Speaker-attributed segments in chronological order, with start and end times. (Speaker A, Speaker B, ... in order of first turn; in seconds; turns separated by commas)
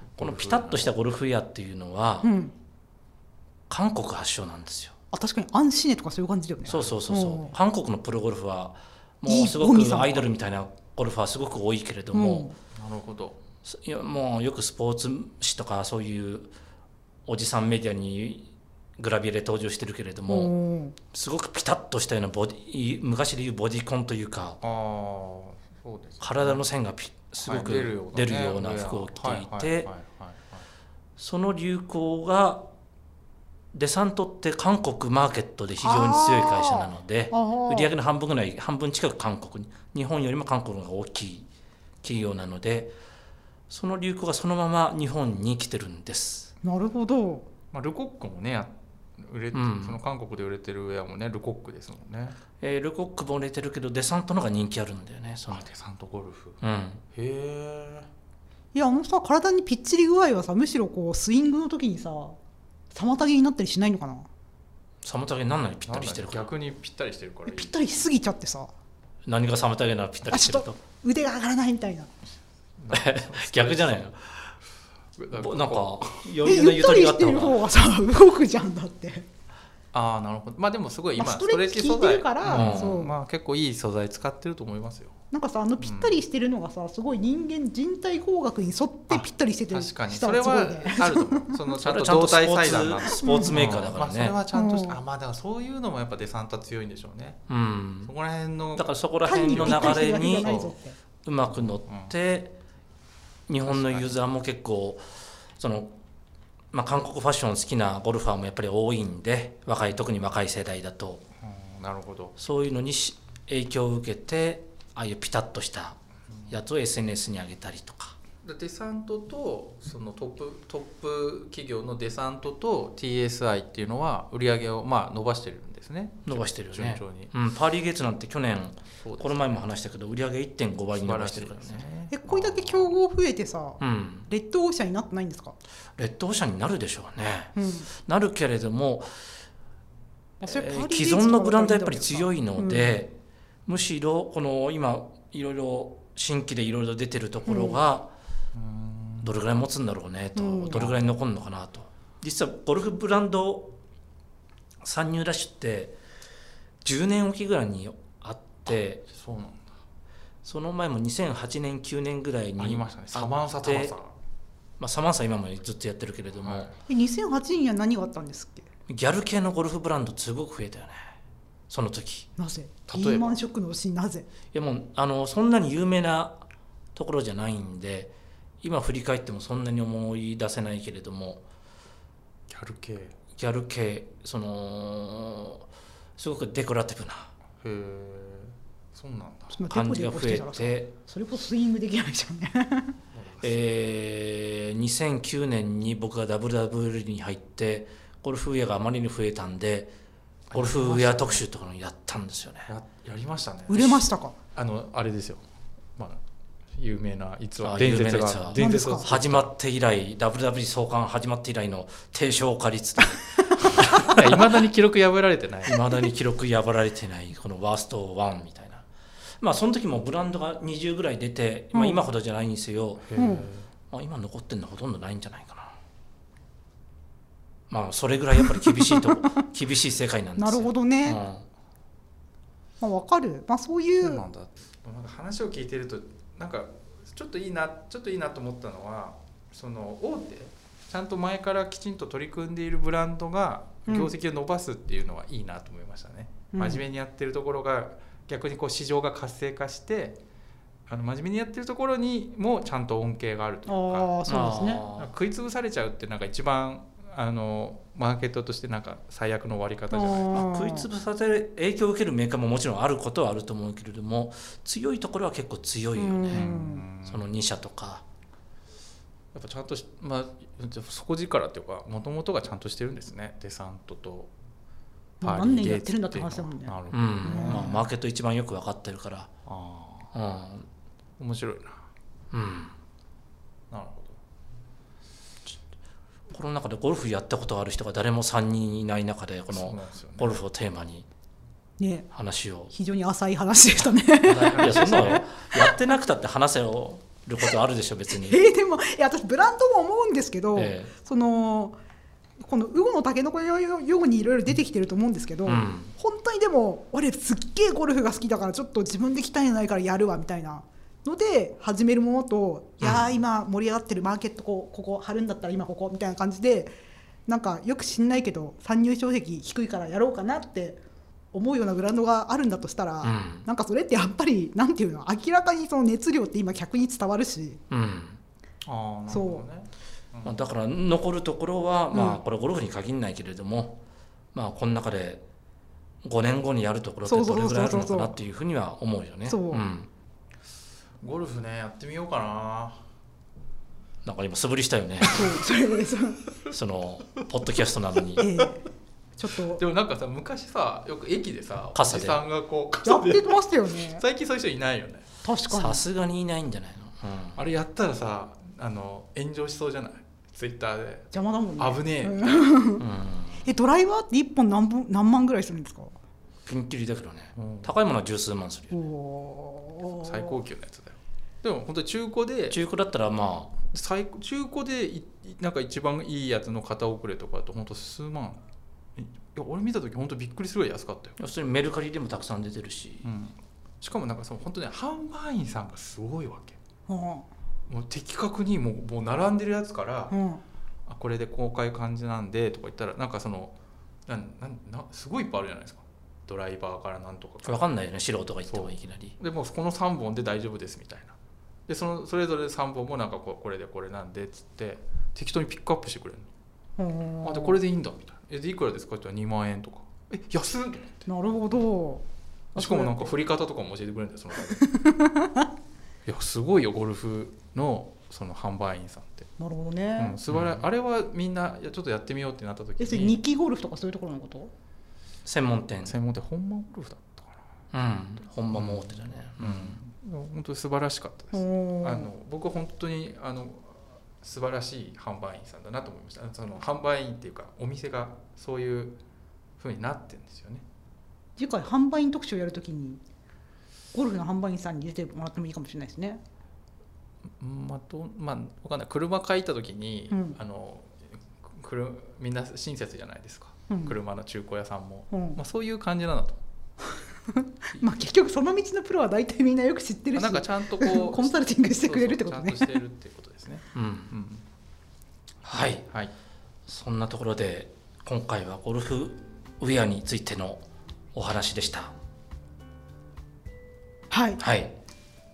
Speaker A: 0.1-0.9, Speaker B: 0.2-2.3, Speaker C: 2.2-2.5, Speaker B: 3.7-4.9, Speaker C: 5.1-7.5, Speaker A: 6.7-6.9, Speaker B: 6.7-12.5, Speaker C: 9.2-10.3, Speaker C: 12.1-12.6, Speaker A: 12.7-13.4, Speaker B: 13.6-16.5, Speaker B: 17.2-20.5, Speaker C: 20.3-21.0, Speaker B: 21.1-24.6, Speaker A: 24.6-26.6, Speaker B: 26.2-29.9, Speaker A: 27.4-30.6, Speaker B: 31.2-32.6, Speaker B: 33.7-41.5, Speaker C: 35.8-37.9, Speaker B: 42.0-42.9, Speaker B: 43.7-46.5, Speaker C: 46.6-47.5, Speaker A: 47.7-52.4, Speaker B: 49.5-50.0, Speaker B: 52.6-55.7, Speaker A: 55.5-56.6, Speaker B: 56.6-57.0, Speaker A: 57.1-58.1, Speaker C: 58.7-62.4, Speaker C: 62.9-64.3, Speaker B: 65.0-66.5, Speaker A: 65.9-68.0, Speaker C: 67.5-68.7, Speaker B: 69.2-70.8, Speaker C: 70.2-72.1, Speaker A: 72.8-74.0, Speaker B: 72.9-74.5, Speaker A: 75.2-76.2, Speaker B: 75.3-77.6, Speaker C: 76.4-79.3, Speaker A: 79.9-85.2, Speaker C: 81.2-83.1, Speaker B: 82.5-83.0, Speaker C: 85.3-91.6, Speaker A: 85.8-86.2, Speaker A: 89.1-97.4, Speaker B: 91.8-94.3, Speaker C: 93.0-93.6, Speaker C: 94.5-95.0, Speaker B: 97.5-98.1, Speaker A: 98.0-100.7, Speaker B: 98.7-100.7, Speaker C: 99.2-101.0, Speaker B: 101.2-102.5, Speaker A: 101.5-102.1, Speaker B: 103.5-105.0, Speaker A: 103.7-104.1, Speaker B: 105.6-105.9, Speaker B: 106.7-111.2, Speaker A: 111.4-112.3, Speaker B: 112.4-118.2, Speaker A: 118.4-127.3, Speaker B: 126.2-131.8, Speaker A: 129.0-129.6, Speaker A: 130.9-133.0, Speaker C: 132.1-135.6, Speaker B: 133.8-134.3, Speaker B: 135.9-139.1, Speaker C: 137.5-137.9, Speaker C: 140.4-143.0, Speaker B: 140.4-148.1, Speaker C: 147.4-147.8, Speaker A: 148.5-149.3, Speaker B: 149.2-153.7, Speaker C: 150.3-150.8, Speaker A: 150.7-151.0, Speaker B: 154.8-156.0, Speaker B: 156.8-159.1, Speaker A: 159.1-159.8, Speaker B: 160.4-163.9, Speaker A: 162.6-164.1, Speaker B: 164.8-166.7, Speaker A: 166.4-166.8, Speaker C: 166.9-168.7, Speaker B: 168.9-171.0, Speaker B: 171.7-172.3, Speaker C: 172.4-174.3, Speaker A: 172.9-173.4, Speaker B: 174.5-176.4, Speaker B: 176.9-181.4, Speaker A: 182.5-183.1, Speaker B: 183.3-187.3, Speaker A: 187.6-189.6, Speaker C: 189.5-192.9, Speaker B: 189.7-190.9, Speaker A: 193.1-193.6, Speaker B: 193.4-199.9, Speaker A: 200.5-201.4, Speaker B: 200.5-202.7, Speaker A: 202.7-205.4, Speaker C: 203.7-204.3, Speaker A: 206.8-209.5, Speaker B: 207.6-214.6, Speaker C: 208.5-209.1, Speaker A: 213.8-215.8, Speaker B: 215.6-218.8, Speaker B: 219.4-223.1, Speaker C: 221.7-222.0, Speaker A: 223.0-223.7, Speaker C: 223.2-223.5, Speaker B: 223.9-225.8, Speaker B: 227.7-231.4, Speaker C: 228.4-229.5, Speaker C: 230.4-231.2, Speaker C: 232.8-234.2, Speaker A: 234.0-250.2, Speaker C: 246.5-246.8, Speaker A: 250.9-254.2, Speaker C: 253.7-254.8, Speaker B: 254.2-255.1, Speaker A: 254.9-260.4, Speaker C: 259.9-260.9, Speaker B: 260.3-266.5, Speaker C: 265.9-266.8, Speaker A: 266.3-267.2, Speaker B: 267.0-268.0, Speaker A: 269.3-274.3, Speaker C: 275.2-277.9, Speaker A: 275.2-277.8, Speaker B: 276.9-279.3, Speaker A: 279.4-280.1, Speaker B: 280.1-280.6, Speaker A: 281.2-281.8, Speaker B: 282.3-282.7, Speaker A: 283.7-284.2, Speaker B: 286.3-291.1, Speaker A: 289.5-290.4, Speaker C: 291.8-292.1, Speaker B: 292.1-292.7, Speaker C: 292.7-295.8, Speaker A: 294.2-295.2, Speaker B: 294.3-298.4, Speaker C: 298.1-301.8, Speaker B: 300.5-300.9, Speaker C: 302.4-316.7, Speaker B: 305.4-305.9, Speaker B: 312.8-313.1, Speaker C: 317.3-327.6, Speaker B: 323.0-323.4, Speaker B: 327.7-328.2, Speaker A: 328.6-330.4, Speaker C: 329.1-329.4, Speaker B: 330.2-333.8, Speaker C: 331.9-332.2, Speaker B: 334.3-335.2, Speaker B: 336.0-339.9, Speaker C: 337.0-338.2, Speaker C: 339.2-339.6, Speaker A: 341.0-342.8, Speaker B: 344.0-345.2, Speaker C: 345.1-346.2, Speaker B: 346.5-348.2, Speaker C: 348.2-348.7, Speaker C: 349.2-349.6, Speaker A: 349.6-355.1, Speaker B: 351.7-352.2, Speaker C: 352.8-354.0, Speaker C: 355.2-355.8, Speaker B: 355.5-357.4, Speaker A: 357.4-362.2, Speaker C: 361.1-362.8, Speaker B: 362.8-363.4, Speaker C: 363.4-365.9, Speaker B: 366.4-368.7, Speaker A: 367.4-367.7, Speaker C: 368.7-370.4, Speaker A: 370.0-372.6, Speaker B: 372.5-373.5, Speaker A: 373.7-378.4, Speaker A: 378.9-381.1, Speaker B: 381.2-383.1, Speaker A: 383.0-386.6, Speaker C: 386.9-387.3, Speaker A: 387.7-390.1, Speaker C: 390.1-390.4, Speaker A: 390.9-393.5, Speaker A: 394.1-397.6, Speaker B: 397.4-399.1, Speaker A: 398.5-401.1, Speaker A: 401.7-406.3, Speaker C: 406.8-407.6, Speaker A: 407.2-411.1, Speaker C: 411.1-412.0, Speaker C: 412.5-413.1, Speaker A: 412.6-414.6, Speaker C: 414.5-415.5, Speaker A: 416.0-419.3, Speaker C: 419.4-420.2, Speaker A: 420.0-423.2, Speaker B: 420.3-420.6, Speaker C: 422.8-424.5, Speaker B: 425.2-425.9, Speaker A: 425.8-427.4, Speaker B: 427.7-429.8, Speaker A: 428.5-439.0, Speaker C: 431.3-432.1, Speaker A: 439.6-440.6, Speaker C: 441.4-443.0, Speaker C: 443.9-446.2, Speaker A: 447.4-456.4, Speaker C: 450.1-450.4, Speaker C: 453.7-453.9, Speaker C: 455.1-455.4, Speaker C: 457.3-462.8, Speaker A: 460.1-464.4, Speaker B: 463.7-464.1, Speaker B: 465.4-465.9, Speaker B: 466.7-471.9, Speaker C: 474.1-474.4, Speaker B: 474.4-474.7